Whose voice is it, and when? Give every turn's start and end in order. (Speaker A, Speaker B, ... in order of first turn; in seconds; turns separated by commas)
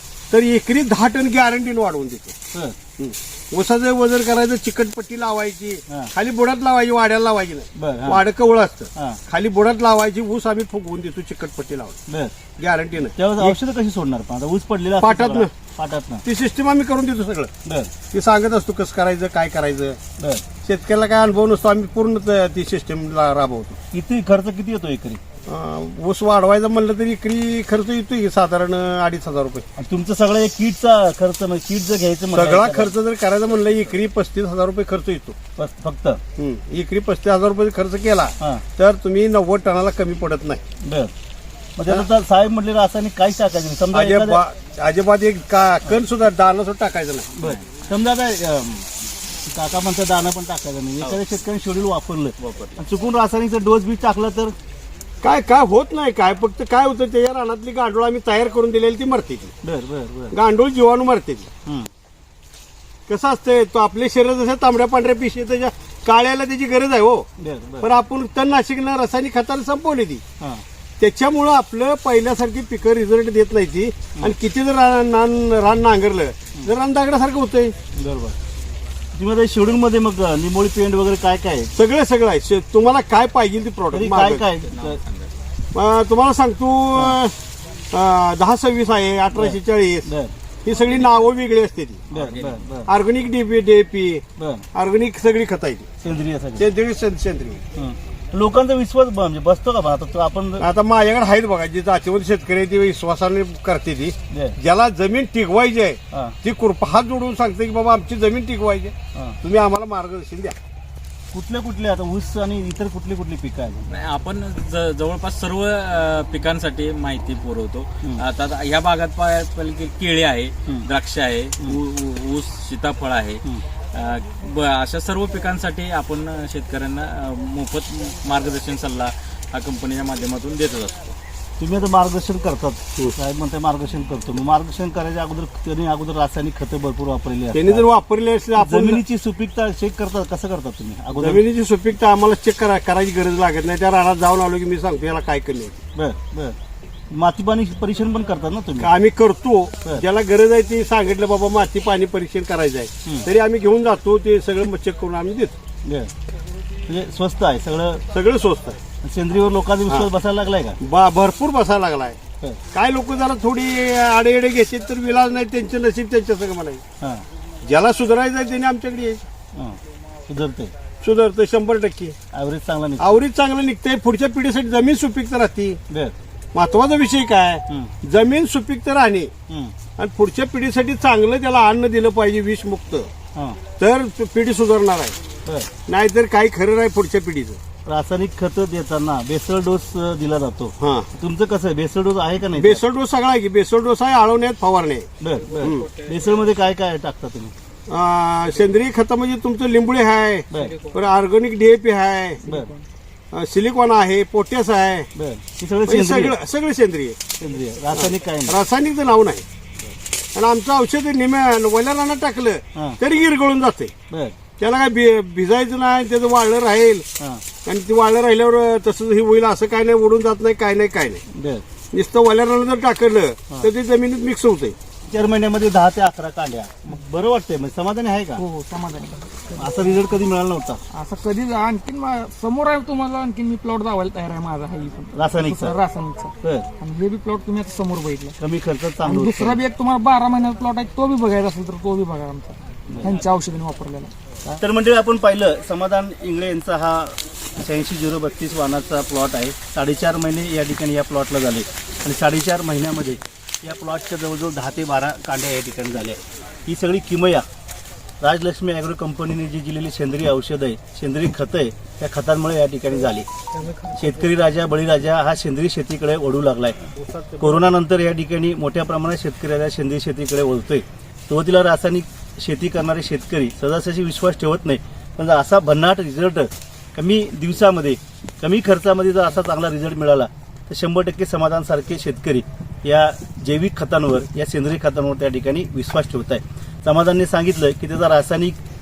Speaker A: 0.3-2.4, Speaker A: 3.0-12.0, Speaker B: 7.8-8.2, Speaker B: 12.1-12.3, Speaker A: 12.6-13.6, Speaker B: 13.2-16.2, Speaker A: 15.0-15.5, Speaker A: 16.2-17.5, Speaker B: 17.6-17.9, Speaker A: 18.1-20.0, Speaker B: 20.2-20.5, Speaker A: 20.6-23.8, Speaker B: 23.9-25.2, Speaker A: 25.5-29.7, Speaker B: 29.8-33.0, Speaker A: 32.3-35.4, Speaker B: 35.6-36.2, Speaker A: 36.4-40.6, Speaker B: 40.8-41.1, Speaker B: 41.8-44.4, Speaker A: 43.9-47.3, Speaker B: 47.4-54.5, Speaker C: 47.4-47.9, Speaker C: 52.4-52.8, Speaker A: 55.2-59.5, Speaker B: 59.6-60.4, Speaker A: 60.3-61.5, Speaker A: 63.1-67.3, Speaker B: 67.4-67.9, Speaker A: 67.8-70.2, Speaker A: 71.0-77.8, Speaker B: 77.9-78.4, Speaker B: 79.1-81.7, Speaker A: 81.8-84.5, Speaker B: 83.9-85.0, Speaker C: 84.7-85.3, Speaker A: 85.7-87.3, Speaker A: 87.9-90.1, Speaker B: 89.3-90.3, Speaker A: 90.7-92.1, Speaker C: 92.1-92.6, Speaker B: 92.1-92.9, Speaker A: 92.9-95.9, Speaker B: 94.4-94.7, Speaker B: 96.0-96.7, Speaker A: 96.6-97.6, Speaker B: 97.8-100.7, Speaker A: 100.6-110.6, Speaker B: 104.3-104.6, Speaker B: 111.3-113.9, Speaker C: 113.9-131.2, Speaker B: 131.6-137.8, Speaker A: 137.5-139.0, Speaker B: 138.6-141.4, Speaker A: 141.2-145.8, Speaker B: 145.9-146.6, Speaker B: 147.1-148.9, Speaker A: 148.8-155.6, Speaker B: 155.8-156.1, Speaker B: 156.9-158.1, Speaker A: 158.1-158.8, Speaker B: 159.0-160.8, Speaker A: 160.8-162.2, Speaker A: 162.7-166.8, Speaker B: 167.0-167.2, Speaker A: 167.6-169.3, Speaker B: 169.6-170.7, Speaker A: 171.0-172.2, Speaker B: 172.3-173.2, Speaker A: 173.0-175.8, Speaker A: 176.5-179.3, Speaker B: 177.7-177.9, Speaker B: 179.5-179.7, Speaker A: 180.0-183.1, Speaker B: 183.3-183.6, Speaker A: 183.8-185.2, Speaker A: 185.8-187.6, Speaker B: 187.8-192.8, Speaker A: 190.8-191.1, Speaker A: 192.6-195.9, Speaker B: 195.2-197.5, Speaker A: 197.9-202.4, Speaker B: 200.5-200.8, Speaker B: 202.4-202.7, Speaker D: 202.4-202.8, Speaker A: 203.3-205.1, Speaker B: 205.2-206.4, Speaker A: 205.9-207.2, Speaker B: 207.4-208.6, Speaker A: 207.9-209.5, Speaker A: 210.3-213.9, Speaker B: 214.1-214.4, Speaker A: 214.6-217.1, Speaker A: 217.7-221.2, Speaker B: 221.3-221.6, Speaker A: 221.9-224.8, Speaker B: 225.1-228.4, Speaker D: 228.4-229.9, Speaker B: 229.6-230.8, Speaker D: 230.9-238.4, Speaker B: 235.1-235.8, Speaker B: 236.4-236.7, Speaker B: 238.4-239.6, Speaker D: 239.0-244.1, Speaker B: 242.9-243.1, Speaker B: 244.5-257.5, Speaker B: 258.2-263.3, Speaker A: 263.5-264.3, Speaker B: 263.9-266.8, Speaker A: 266.9-267.6, Speaker B: 267.4-288.6